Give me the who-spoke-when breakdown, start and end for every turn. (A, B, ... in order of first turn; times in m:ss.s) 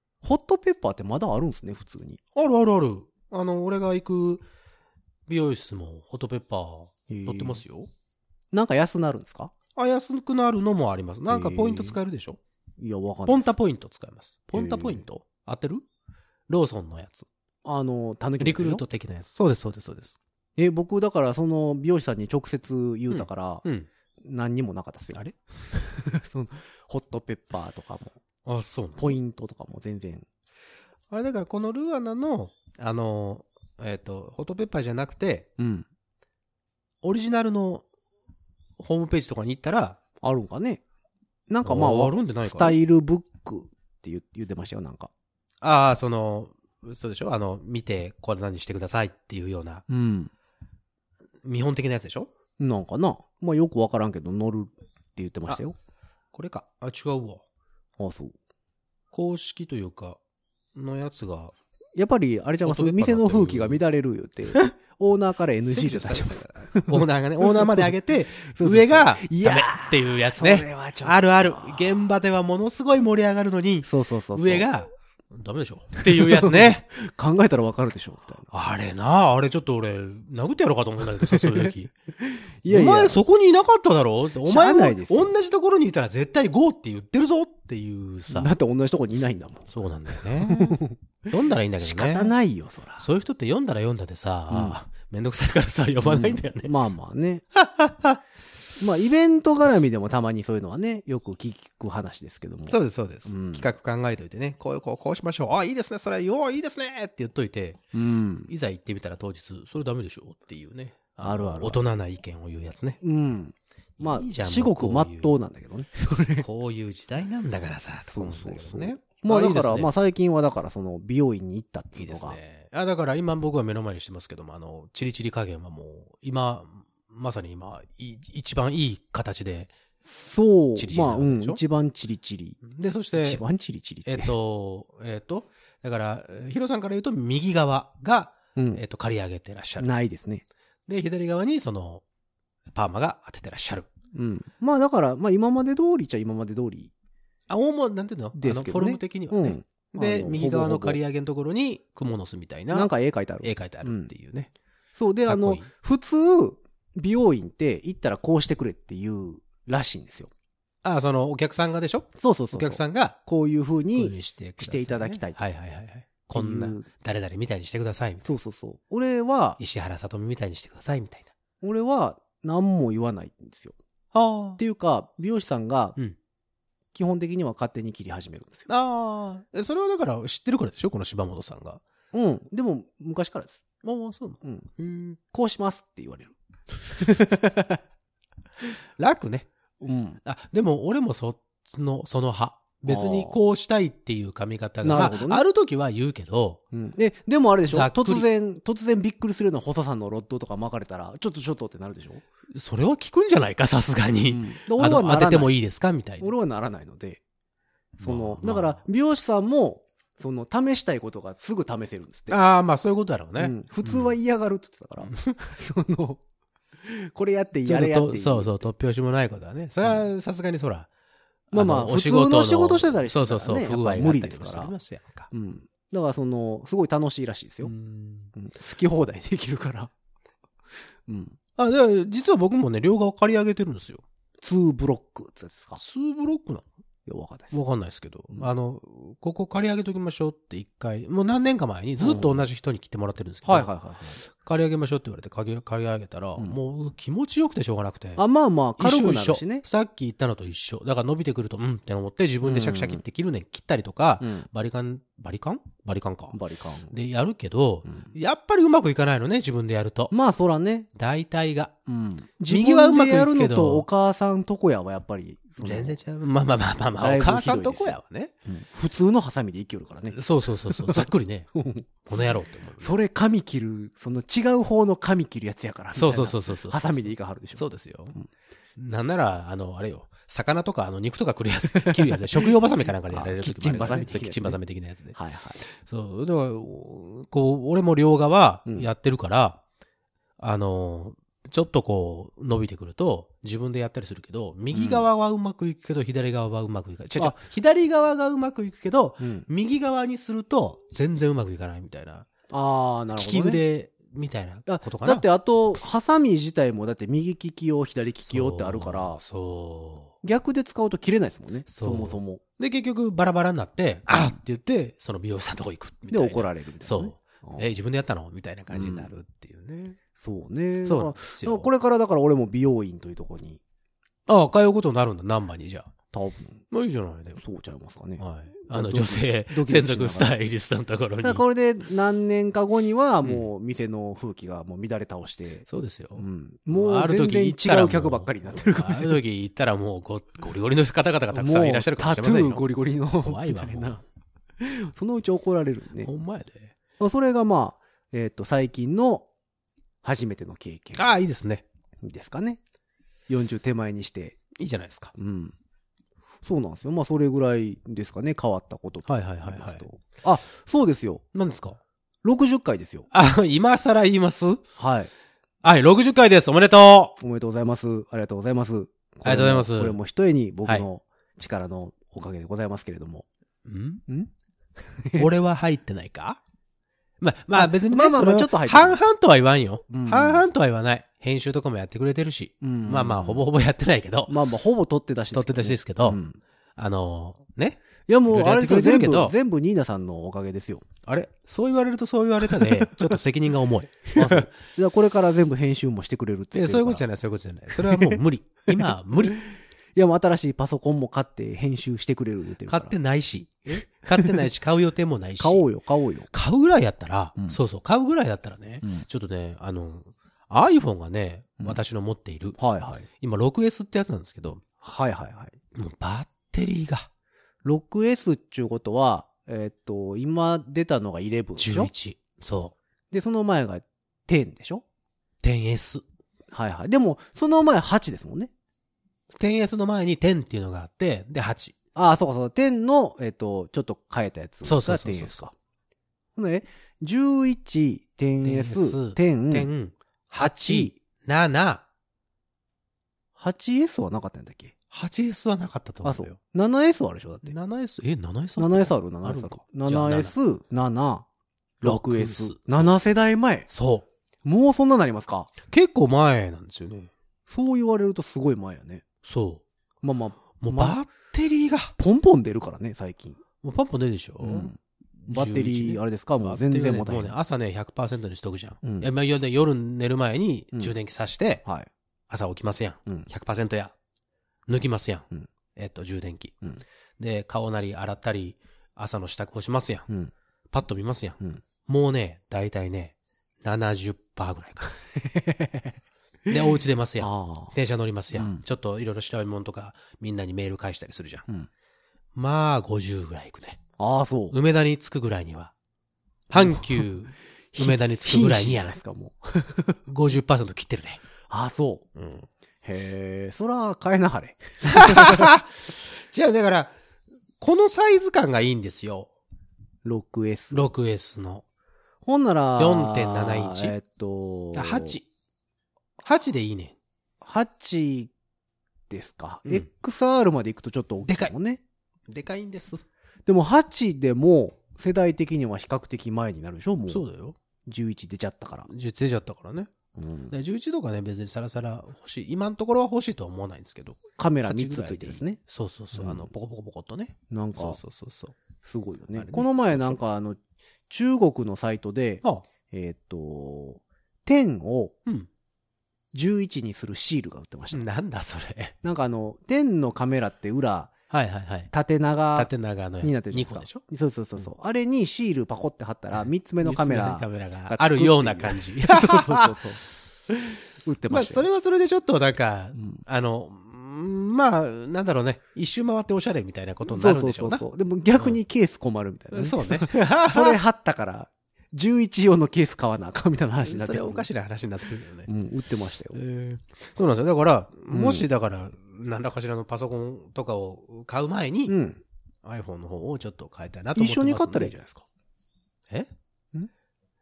0:00.2-0:02.2 A
0:02.3-0:04.4 B
0:05.3-0:07.9 B
0:07.1-0:07.6 A
0:08.5-0:09.5 A
0:09.8-0:12.4 B
0:11.3-0:12.0 A
0:12.8-0:13.5 A
0:13.3-0:15.8 B
0:14.5-0:15.0 A
0:16.5-0:17.3 B
0:17.6-0:18.8 A
0:18.4-0:20.2 B
0:20.6-0:23.6 A
0:23.1-0:23.9 B
0:24.2-0:25.2 A
0:25.1-0:25.4 B
0:25.7-0:28.2 A
0:28.4-0:29.2 B
0:29.0-0:30.2 A
0:31.1-0:35.5 B
0:35.6-0:35.8 A
0:37.0-0:37.8 B
0:38.8-0:40.0 B
0:40.2-0:40.8 A
0:41.5-0:45.1 A
0:41.6-0:42.8 B
0:45.6-0:49.8 B
0:49.9-0:50.3 A
0:51.4-0:52.3 B
0:52.6-0:55.8 A
0:56.3-0:57.4 B
0:58.0-0:58.3 A
0:59.1-1:00.2 B
1:00.7-1:01.5 B
1:02.0-1:07.9 A
1:02.6-1:03.8 B
1:05.7-1:16.8 B
1:08.5-1:12.0 A
1:13.8-1:14.7 A
1:16.0-1:18.5 A
1:18.5-1:21.9 B
1:21.2-1:23.2 A
1:22.7-1:28.5 B
1:24.4-1:25.3 A
1:28.3-1:31.3 A
1:29.7-1:32.3 B
1:31.8-1:33.1 A
1:33.0-1:36.7 B
1:34.5-1:34.8 A
1:36.0-1:37.4 A
1:37.5-1:38.2 B
1:38.8-1:43.7 A
1:42.7-1:47.8 B
1:47.9-1:48.5 A
1:48.5-1:53.0 B
1:51.2-1:51.8 A
1:53.0-1:56.5 A
1:54.0-1:55.3 B
1:56.4-1:59.9 B
1:58.1-2:02.4 A
2:02.0-2:09.7 B
2:10.0-2:12.6 A
2:10.8-2:11.6 B
2:12.6-2:13.4 B
2:13.2-2:14.3 A
2:14.0-2:19.9 B
2:18.6-2:18.8 A
2:19.8-2:20.4 A
2:20.9-2:22.0 B
2:22.7-2:23.9 B
2:24.1-2:26.9 A
2:27.5-2:32.9 B
2:28.3-2:31.0 A
2:32.7-2:34.1 A
2:33.4-2:34.5 B
2:35.0-2:40.3 A
2:35.3-2:35.7 B
2:40.8-2:43.2 B
2:42.2-2:45.4 A
2:43.9-2:48.3 B
2:46.3-2:46.9 A
2:48.2-2:49.6 A
2:49.6-2:51.3 B
2:51.6-2:53.8 A
2:54.1-2:54.6 B
2:54.6-2:56.0 A
2:56.9-2:58.7 A
2:58.7-3:01.8 B
3:02.1-3:03.6 A
3:03.8-3:05.2 B
3:04.4-3:06.3 A
3:06.8-3:07.8 A
3:09.0-3:09.5 B
3:09.8-3:10.2 A
3:10.2-3:16.6 B
3:12.9-3:13.4 A
3:14.8-3:15.4 A
3:16.7-3:22.2 A
3:17.7-3:18.2 B
3:22.5-3:26.3 B
3:24.3-3:25.5 A
3:26.2-3:27.2 A
3:28.0-3:32.4 A
3:28.0-3:28.8 B
3:32.3-3:34.1 B
3:33.4-3:36.2 A
3:36.8-3:38.7 A
3:37.6-3:40.9 B
3:41.5-3:45.3 B
3:41.5-3:44.7 A
3:45.3-3:47.7 A
3:47.6-3:48.3 B
3:48.3-3:49.9 A
3:51.1-3:51.4 A
3:51.6-3:54.0 B
3:54.4-3:55.8 A
3:55.8-3:56.6 B
3:57.0-3:57.6 A
3:57.5-4:03.7 B
4:02.0-4:02.4 A
4:03.4-4:04.2 A
4:04.2-4:08.2 B
4:08.2-4:09.6 A
4:08.8-4:16.4 B
4:12.4-4:13.0 A
4:14.2-4:14.5 A
4:16.3-4:16.9 A
4:16.9-4:20.1 B
4:17.8-4:18.1 A
4:20.1-4:20.9 A
4:20.9-4:21.8 B
4:21.9-4:26.0 A
4:22.5-4:23.9 B
4:25.6-4:28.3 B
4:27.0-4:31.9 A
4:30.1-4:31.5 B
4:32.0-4:32.9 B
4:32.8-4:37.6 A
4:36.0-4:38.2 B
4:38.8-4:49.6 B
4:41.7-4:44.6 A
4:45.1-4:45.6 A
4:50.4-5:02.3 B
4:54.7-4:55.1 A
4:59.2-4:59.5 A
5:02.5-5:03.6 A
5:03.1-5:05.2 B
5:04.6-5:09.2 A
5:08.2-5:10.1 B
5:10.2-5:12.4 A
5:11.7-5:20.0 B
5:16.1-5:17.7 A
5:18.7-5:19.1 A
5:20.2-5:23.6 A
5:20.8-5:21.7 B
5:24.3-5:25.9 B
5:26.1-5:26.6 A
5:26.7-5:27.4 B
5:27.4-5:30.3 A
5:28.2-5:31.4 B
5:31.2-5:39.2 A
5:33.2-5:33.5 B
5:35.7-5:42.6 B
5:41.3-5:44.0 A
5:43.2-5:44.0 B
5:44.6-5:46.1 A
5:46.0-5:46.7 B
5:47.0-5:49.3 A
5:50.0-5:51.1 A
5:51.0-5:51.6 B
5:52.0-5:52.6 A
5:53.3-5:54.4 A
5:54.5-5:55.1 B
5:55.2-5:55.5 A
5:56.4-6:01.2 A
5:59.1-5:59.8 B
6:01.3-6:01.8 B
6:02.2-6:03.1 A
6:03.1-6:04.6 B
6:04.8-6:05.1 A
6:05.6-6:07.1 B
6:07.2-6:13.2 A
6:09.2-6:10.0 B
6:13.6-6:14.0 B
6:14.9-6:15.3 A
6:15.2-6:16.4 B
6:17.2-6:24.4 B
6:17.5-6:19.0 A
6:19.9-6:20.4 A
6:22.6-6:23.4 A
6:24.3-6:26.4 A
6:25.3-6:26.2 B
6:26.8-6:29.3 B
6:28.1-6:30.8 A
6:31.0-6:34.5 B
6:32.5-6:33.1 A
6:34.1-6:37.0 A
6:36.5-6:39.4 B
6:37.8-6:38.2 A
6:38.8-6:42.9 A
6:42.6-6:45.7 B
6:45.4-6:46.3 A
6:46.3-6:52.6 B
6:52.6-6:53.1 A
6:53.2-6:54.6 B
6:54.8-6:55.6 A
6:55.7-6:57.1 B
6:57.6-7:01.9 A
7:01.6-7:02.7 B
7:03.1-7:04.8 A
7:05.4-7:06.0 B
7:06.5-7:08.5 A
7:09.3-7:11.7 B
7:11.9-7:15.5 A
7:14.6-7:15.5 B
7:16.4-7:19.7 A
7:18.4-7:21.8 B
7:20.4-7:20.9 A
7:23.4-7:24.7 A
7:24.9-7:26.4 B
7:26.0-7:27.5 A
7:27.4-7:30.3 B
7:28.6-7:31.2 A
7:31.8-7:33.7 A
7:31.8-7:32.9 B
7:33.7-7:34.0 B
7:34.4-7:35.5 A
7:35.7-7:37.1 B
7:37.5-7:39.0 A
7:39.2-7:39.6 B
7:40.0-7:41.0 A
7:40.6-7:41.9 B
7:42.0-7:43.4 A
7:43.6-7:51.6 B
7:44.4-7:44.8 A
7:45.3-7:47.3 A
7:48.8-7:49.1 A
7:52.3-7:53.9 B
7:54.7-7:56.6 B
7:57.2-8:00.1 B
8:00.7-8:04.9 B
8:05.2-8:06.0 A
8:06.5-8:11.4 B
8:07.2-8:07.7 A
8:08.3-8:08.6 A
8:12.3-8:13.8 B
8:14.0-8:14.6 A
8:14.5-8:15.7 B
8:16.5-8:19.0 B
8:16.5-8:17.1 A
8:17.7-8:20.0 A
8:20.1-8:21.2 B
8:21.5-8:22.1 A
8:22.2-8:22.5 B
8:22.8-8:25.5 A
8:24.9-8:26.9 B
8:27.6-8:29.3 B
8:30.0-8:30.9 A
8:30.7-8:31.6 B
8:32.2-8:35.2 A
8:32.8-8:34.0 B
8:34.7-8:35.2 B
8:36.2-8:36.9 B
8:37.4-8:38.3 A
8:39.1-8:41.8 A
8:41.2-8:41.5 B
8:42.3-8:43.0 B
8:43.4-8:47.2 A
8:47.1-8:47.6 B
8:47.8-8:48.9 A
8:48.9-8:49.9 B
8:50.2-8:50.5 A
8:50.5-8:58.6 B
8:54.4-8:55.6 A
8:56.2-8:56.5 A
8:57.5-8:58.0 A
8:58.8-9:00.6 A
8:59.3-9:00.2 B
9:01.1-9:05.1 A
9:06.3-9:08.1 A
9:07.9-9:09.0 B
9:09.0-9:11.1 A
9:11.3-9:11.9 B
9:11.9-9:12.7 A
9:12.5-9:14.0 B
9:13.2-9:20.0 A
9:16.8-9:19.7 B
9:21.0-9:21.6 A
9:21.3-9:27.8 B
9:27.0-9:34.5 A
9:29.5-9:30.8 B
9:33.8-9:35.5 B
9:35.4-9:36.4 A
9:36.3-9:41.9 B
9:38.1-9:38.4 A
9:41.9-9:42.2 A
9:42.6-9:44.9 B
9:44.1-9:45.2 A